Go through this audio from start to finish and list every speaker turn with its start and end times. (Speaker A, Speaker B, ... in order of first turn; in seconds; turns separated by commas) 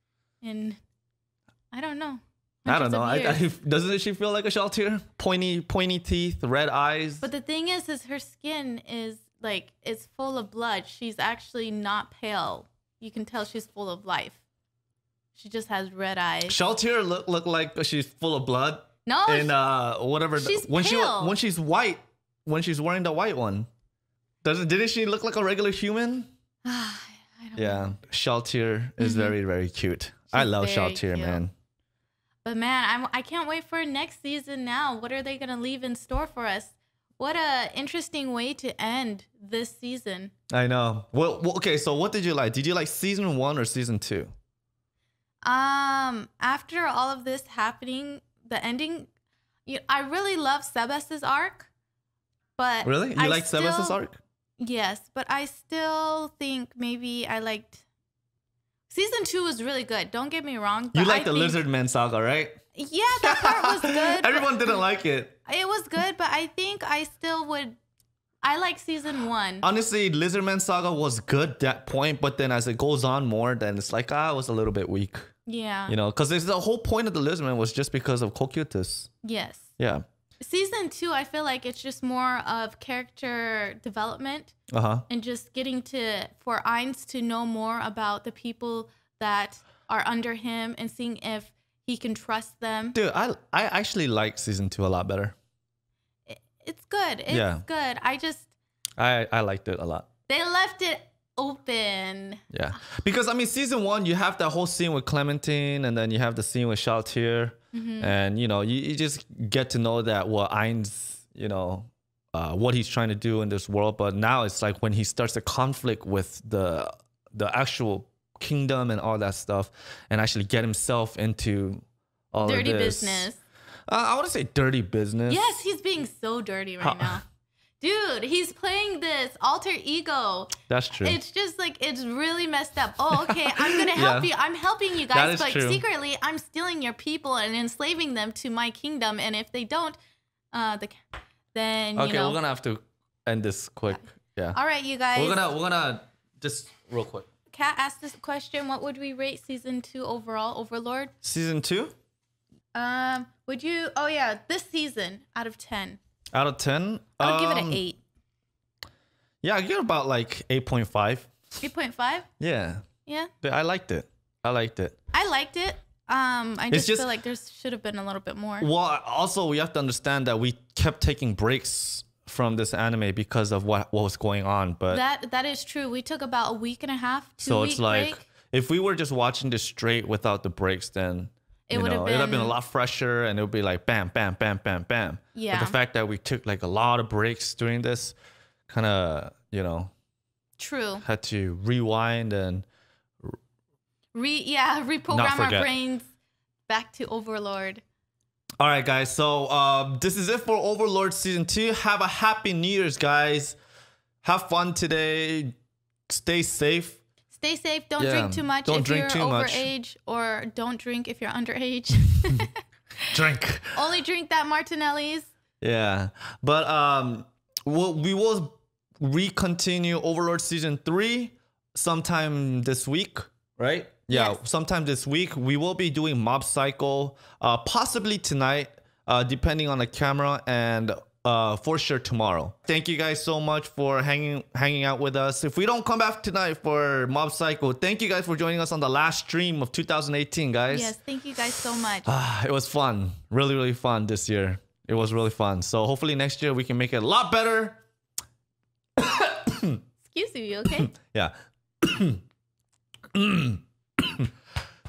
Speaker A: 0.4-0.8, Speaker A: 1.7-3.5, Speaker B: 2.7-7.2, Speaker A: 7.2-14.4, Speaker A: 15.3-16.6, Speaker B: 16.5-23.7, Speaker A: 19.1-19.5, Speaker A: 20.4-21.4, Speaker B: 24.4-26.3, Speaker A: 26.6-27.9, Speaker B: 27.6-31.5, Speaker A: 29.0-29.4, Speaker A: 30.3-31.4, Speaker A: 32.4-40.3, Speaker B: 40.5-44.3, Speaker A: 45.4-49.1, Speaker A: 49.6-51.7, Speaker A: 52.6-54.0, Speaker B: 52.8-54.2, Speaker A: 54.6-57.8, Speaker A: 58.9-61.6, Speaker B: 60.9-62.5, Speaker A: 62.7-64.8, Speaker B: 63.2-65.3, Speaker A: 65.5-67.8, Speaker A: 68.4-69.7, Speaker B: 69.6-75.3, Speaker A: 75.5-75.9, Speaker B: 75.9-79.1, Speaker A: 79.2-79.7, Speaker B: 79.8-80.0, Speaker A: 80.4-84.5, Speaker B: 84.7-85.0, Speaker A: 85.1-93.0, Speaker B: 92.9-95.3, Speaker A: 96.3-98.5, Speaker B: 97.3-97.6, Speaker B: 99.0-100.1, Speaker A: 100.3-102.5, Speaker B: 102.5-123.3, Speaker A: 107.7-108.1, Speaker A: 122.4-123.4, Speaker B: 123.9-125.5, Speaker A: 125.3-127.2, Speaker B: 126.8-127.2, Speaker A: 127.8-140.0, Speaker B: 130.7-131.2, Speaker B: 133.6-134.3, Speaker B: 135.1-135.8, Speaker A: 140.5-141.0, Speaker A: 141.5-142.4, Speaker B: 141.9-144.6, Speaker A: 144.5-145.5, Speaker B: 145.1-147.3, Speaker A: 147.5-151.1, Speaker B: 151.2-151.9, Speaker A: 152.7-156.0, Speaker B: 156.3-157.8, Speaker A: 157.2-158.0, Speaker B: 159.4-161.3, Speaker A: 161.6-162.3, Speaker B: 162.4-162.8, Speaker A: 163.1-163.3, Speaker B: 163.4-164.9, Speaker A: 165.1-168.7, Speaker B: 166.7-167.1, Speaker B: 168.6-175.0, Speaker A: 174.9-178.2, Speaker B: 177.4-188.1, Speaker A: 181.7-182.6, Speaker A: 185.3-185.7, Speaker B: 188.7-189.9, Speaker A: 190.6-191.0, Speaker B: 191.0-192.7, Speaker A: 194.1-196.1, Speaker B: 195.1-195.7, Speaker A: 196.7-197.8, Speaker B: 198.6-203.6, Speaker B: 204.2-205.5, Speaker B: 206.1-207.0, Speaker A: 207.3-213.1, Speaker B: 208.0-209.7, Speaker B: 213.1-213.8, Speaker A: 213.7-215.3, Speaker B: 215.6-240.9, Speaker A: 224.1-224.4, Speaker A: 240.7-242.1, Speaker B: 242.0-247.8, Speaker B: 249.0-249.8, Speaker A: 250.1-250.9, Speaker B: 250.9-252.2, Speaker B: 253.1-254.3